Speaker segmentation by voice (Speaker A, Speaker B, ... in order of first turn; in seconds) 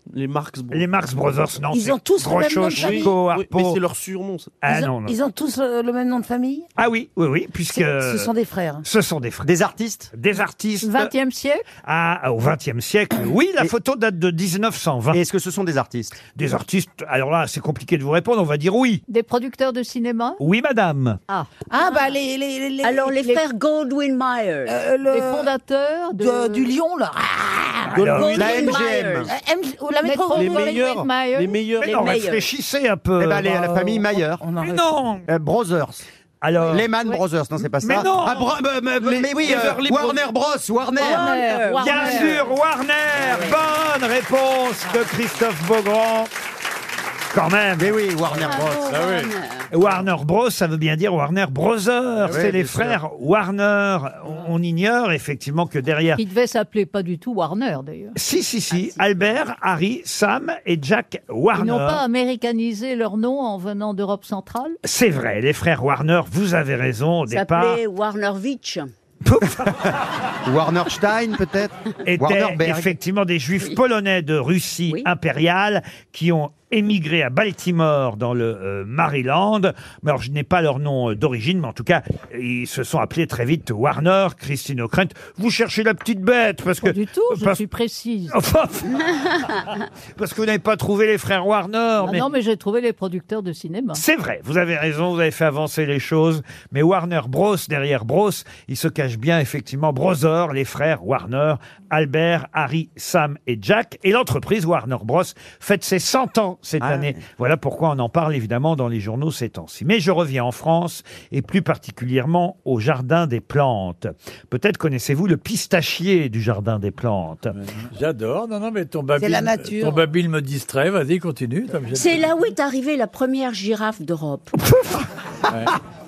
Speaker A: 0.1-0.9, 2.5-4.6, 30.4-32.2, 39.0-40.2
Speaker B: 0.7-3.8, 4.6-5.2, 6.8-8.3, 8.8-9.5, 10.1-11.1, 11.8-15.2, 16.4-19.0, 20.4-21.2, 27.9-28.7, 31.8-33.6, 34.6-35.3, 36.4-36.9, 37.8-38.5, 41.8-46.3, 47.3-48.0, 49.7-56.2, 58.1-62.0, 64.8-67.8, 69.2-69.9, 72.0-87.6, 88.3-89.2, 90.2-92.3, 93.9-117.6, 124.7-125.0
Speaker C: 1.7-3.1, 4.7-6.7, 7.7-8.8, 21.7-23.3, 24.7-25.5, 26.2-28.5, 29.3-30.8, 33.5-34.9, 41.0-42.3, 119.2-120.0
Speaker D: 9.4-10.1, 15.1-16.2, 28.4-29.3, 33.2-34.4, 35.3-36.0, 36.7-41.4, 47.8-48.9, 52.3-53.0, 70.5-72.9, 106.8-107.2
Speaker E: 10.8-11.7, 19.1-20.4, 21.3-22.0, 25.1-26.7, 30.0-31.6, 41.2-42.2, 56.2-58.1, 61.5-64.8, 86.8-88.4, 92.0-94.0
Speaker F: 22.8-24.8, 28.0-29.3, 31.9-32.5, 41.0-42.5, 43.1-43.6, 48.4-49.7, 58.7-59.0, 67.3-68.9, 121.9-124.5
Speaker G: 48.9-49.3, 117.5-122.3, 125.5-125.8